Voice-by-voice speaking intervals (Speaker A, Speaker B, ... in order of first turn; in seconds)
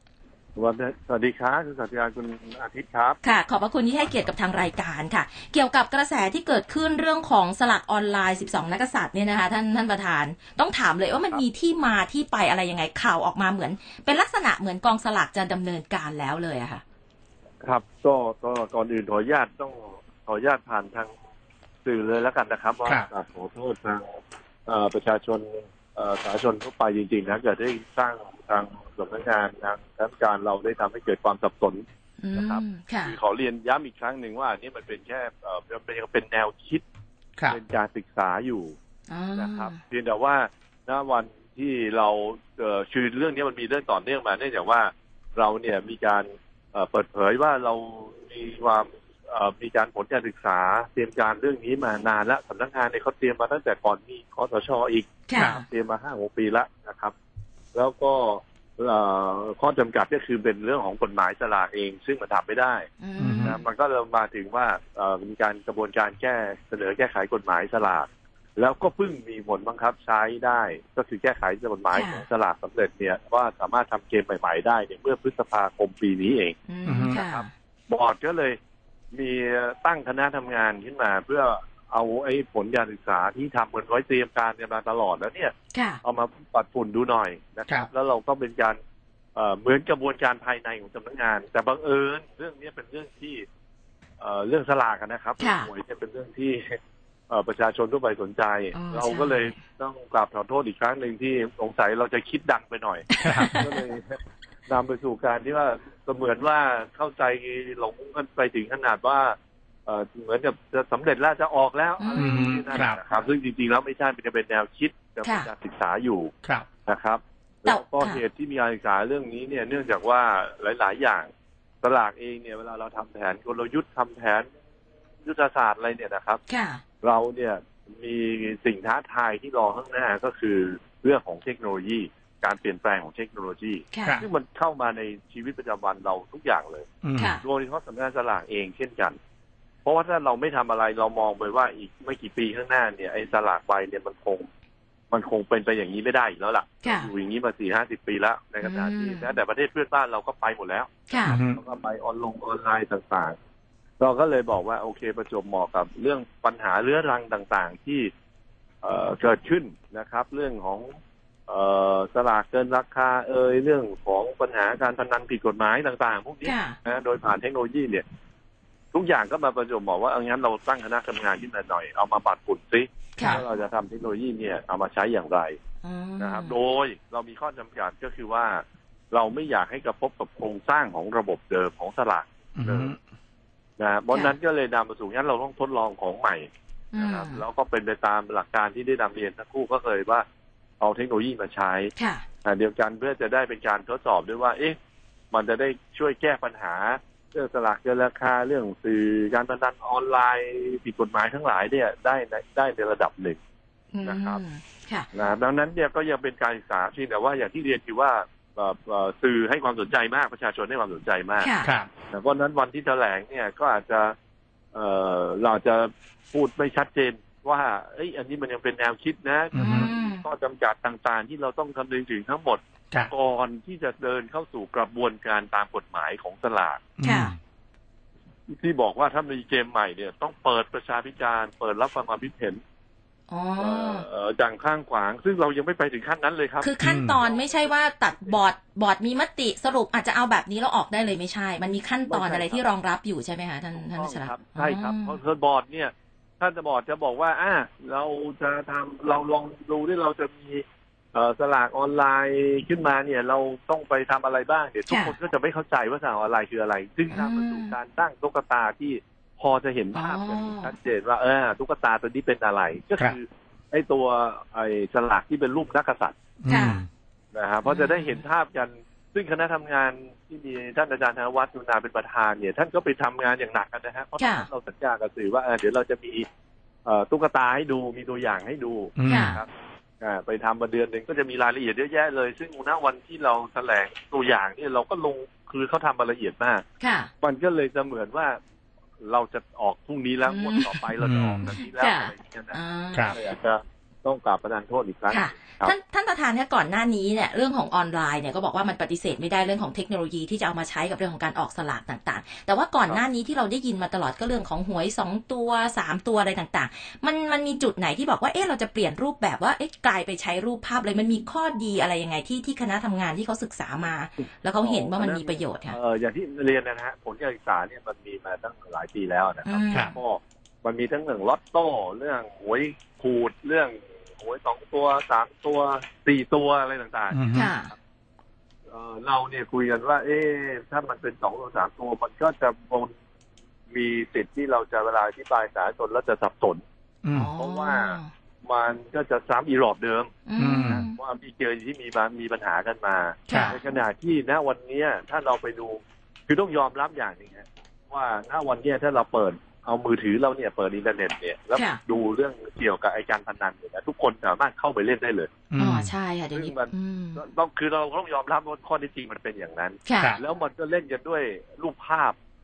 Speaker A: 0.6-3.2, 17.6-21.1, 21.8-36.8, 37.5-38.8, 39.4-57.1, 57.7-62.9, 63.4-76.6, 77.1-78.6, 79.1-88.8, 89.3-93.5, 94.2-96.8, 97.3-109.3, 109.9-116.3, 116.8-121.3, 121.8-124.5, 125.2-126.4, 127.0-136.8, 137.4-139.2, 139.8-144.5, 145.1-153.3, 154.0-158.1, 158.8-160.9, 161.5-168.0, 168.9-175.6, 176.2-182.9, 183.8-190.2, 190.8-191.9, 192.4-194.8, 195.3-203.4, 204.0-204.4, 205.1-211.5, 212.1-214.1, 214.7-226.8, 228.5-232.6, 233.6-238.4, 242.1-242.7, 243.7-266.1, 267.3-276.2, 276.9-279.5, 280.0-286.6, 287.2-288.4, 289.0-292.6, 293.1-295.7, 314.6-327.2, 328.7-332.9, 333.7-336.6, 337.3-355.3, 356.3-362.1
Speaker B: 3.2-16.8, 32.2-33.1, 39.1-39.8, 55.3-55.6, 63.0-63.6, 71.9-72.2, 76.7-77.5, 85.7-86.0, 95.4-95.7, 98.7-99.5, 103.2-103.7, 112.0-112.4, 115.2-115.5, 117.7-118.2, 126.5-126.8, 133.9-134.2, 137.2-137.4, 146.8-147.1, 148.6-149.4, 151.1-151.4, 166.4-166.8, 173.2-173.4, 175.8-176.5, 186.9-187.4, 191.9-192.2, 203.9-205.1, 211.4-211.7, 219.6-220.2, 227.0-227.3, 233.3-234.1, 236.6-245.2, 254.9-255.1, 257.1-257.7, 259.9-260.7, 266.5-266.8, 267.6-268.2, 274.2-274.5, 279.0-279.4, 286.8-287.1, 290.3-290.8, 291.5-293.2, 295.1-315.8, 319.4-319.9, 327.3-327.7, 337.1-338.1, 340.2-340.9, 343.3-343.6, 355.6-357.2, 359.8-360.2
Speaker C: 55.4-55.6, 63.2-63.6, 76.8-77.2, 103.2-103.5, 112.2-113.0, 137.0-137.3, 151.2-151.6, 182.6-183.0, 219.5-219.9, 227.0-227.3, 236.8-237.2, 266.4-266.9, 279.0-279.3, 291.0-291.5, 327.1-327.5, 337.0-337.3, 340.4-340.8, 355.5-355.9